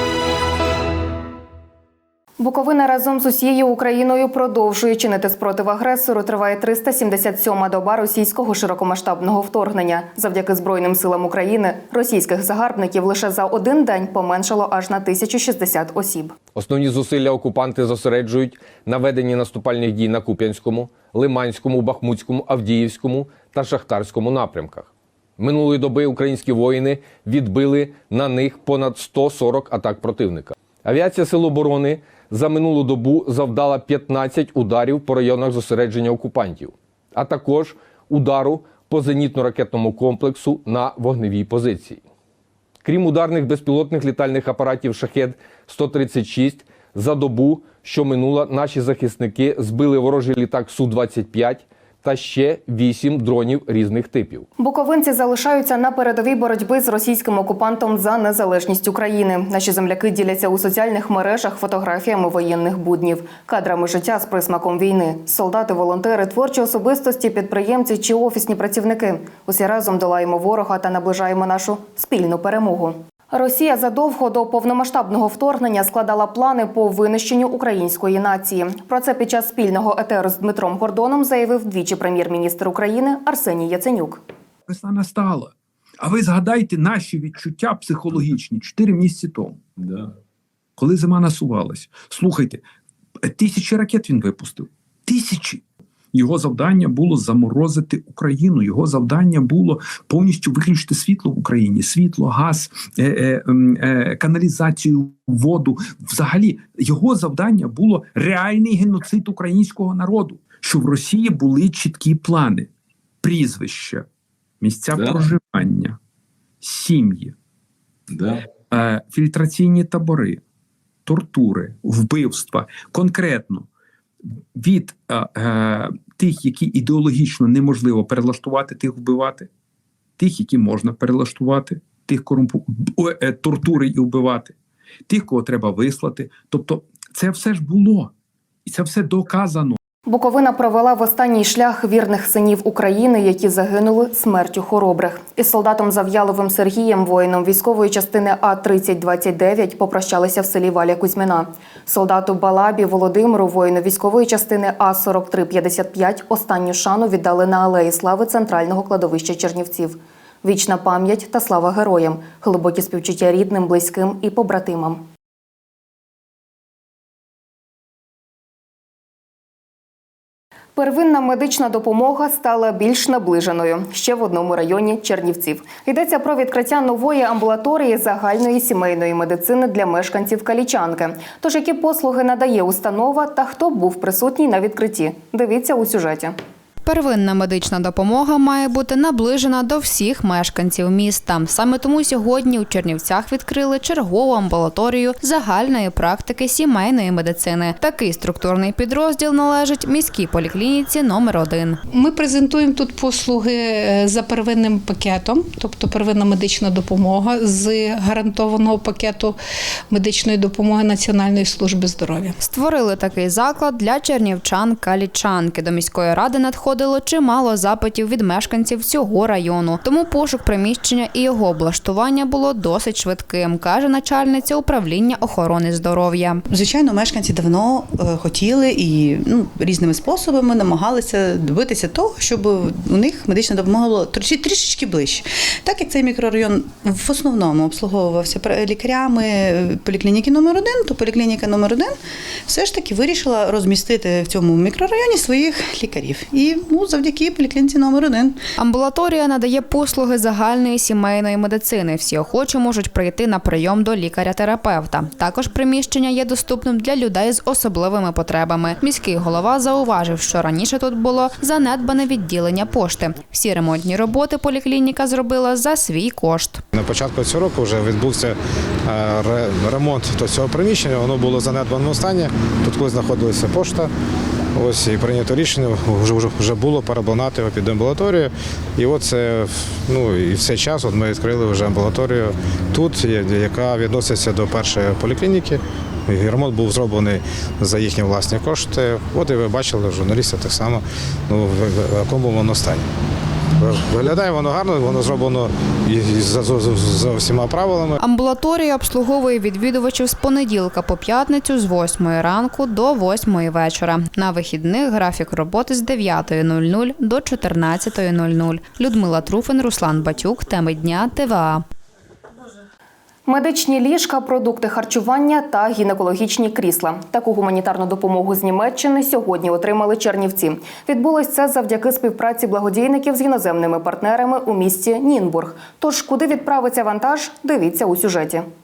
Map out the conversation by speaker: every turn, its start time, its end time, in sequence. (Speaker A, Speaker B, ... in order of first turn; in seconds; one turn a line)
Speaker A: 2.4-16.4
Speaker B: 16.6-42.0
Speaker B: 42.8-54.5
Speaker A: 54.6-84.2
Speaker C: 84.7-89.6
Speaker C: 90.8-92.6
Speaker C: 93.2-95.6
Speaker C: 96.1-112.7
Speaker C: 113.2-114.0
Speaker C: 114.6-116.0
Speaker C: 116.6-117.3
Speaker C: 118.7-120.4
Speaker C: 121.1-123.7
Speaker C: 124.6-129.5
Speaker C: 130.2-134.5
Speaker C: 135.1-138.1
Speaker C: 138.7-139.8
Speaker A: 140.1-165.0
Speaker A: 170.8-186.3
Speaker D: 186.9-201.8
Speaker E: 201.9-209.4
Speaker E: 209.9-212.3
Speaker D: 212.4-226.4
Speaker F: 226.5-241.9
Speaker F: 242.5-248.4
Speaker D: 248.6-266.6
Speaker G: 266.7-268.4
Speaker G: 268.9-273.9
Speaker G: 274.6-292.8
Speaker G: 293.6-298.0
Speaker D: 298.0-311.6
Speaker A: 313.3-328.4